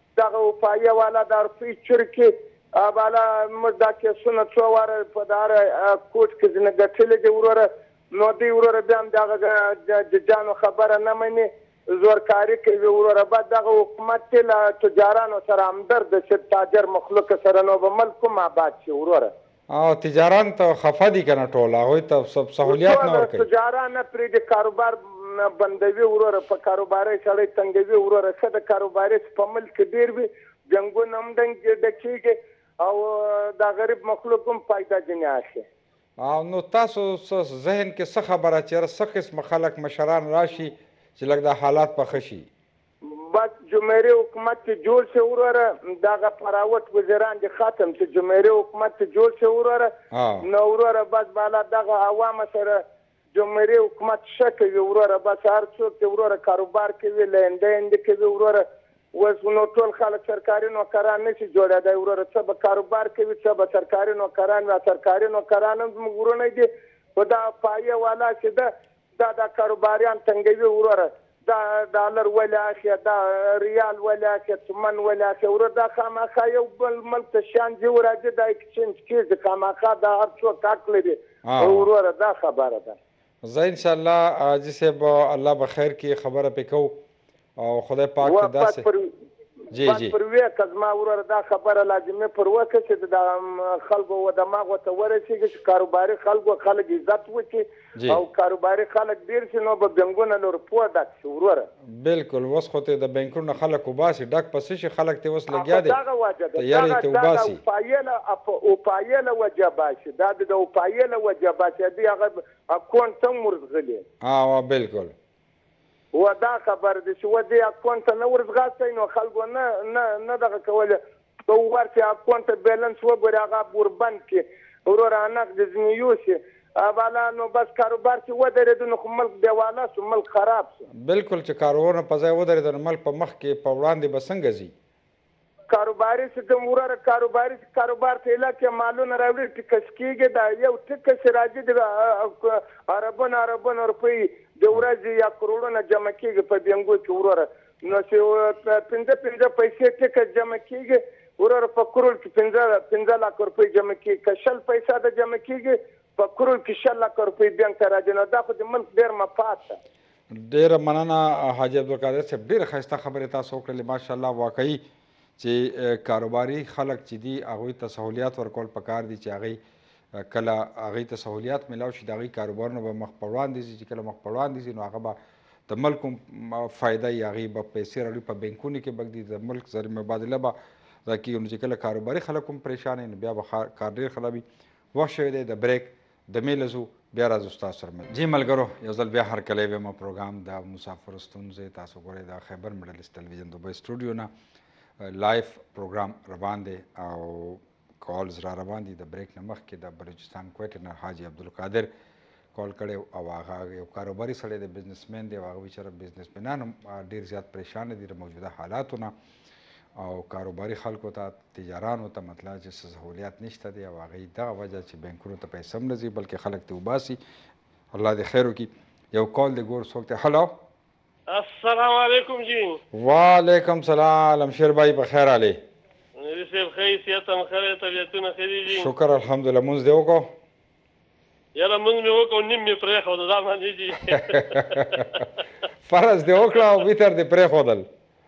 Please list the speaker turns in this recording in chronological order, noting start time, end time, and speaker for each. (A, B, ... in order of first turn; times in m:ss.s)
0:00.2-0:19.3 A
0:19.7-0:23.4 B
0:22.6-0:35.6 A
0:36.2-0:42.5 B
0:43.1-0:49.9 A
0:50.1-0:50.4 B
0:50.4-0:52.8 A
0:53.3-0:58.6 A
0:59.2-1:08.7 A
1:09.2-1:23.0 A
1:21.5-1:21.9 B
1:23.4-1:27.0 B
1:27.6-1:28.8 B
1:28.2-1:29.1 A
1:29.7-1:30.1 B
1:29.7-1:41.7 A
1:42.0-1:46.0 B
1:45.5-1:54.0 A
1:46.6-1:47.6 B
1:54.2-1:55.1 B
1:56.1-2:10.8 A
2:11.0-2:14.7 B
2:15.7-2:39.8 A
2:40.3-2:44.8 B
2:45.4-2:49.6 B
2:50.2-2:55.2 B
2:55.7-3:00.5 B
3:01.0-3:04.4 B
3:04.9-3:14.3 B
3:15.0-3:21.9 B
3:22.5-3:29.1 B
3:30.0-3:37.2 B
3:37.9-3:40.5 B
3:41.3-3:42.8 C
3:42.9-3:45.6 B
3:46.2-3:48.9 C
3:48.7-3:50.3 B
3:51.6-3:55.0 C
3:54.1-3:55.1 B
3:55.8-3:57.8 B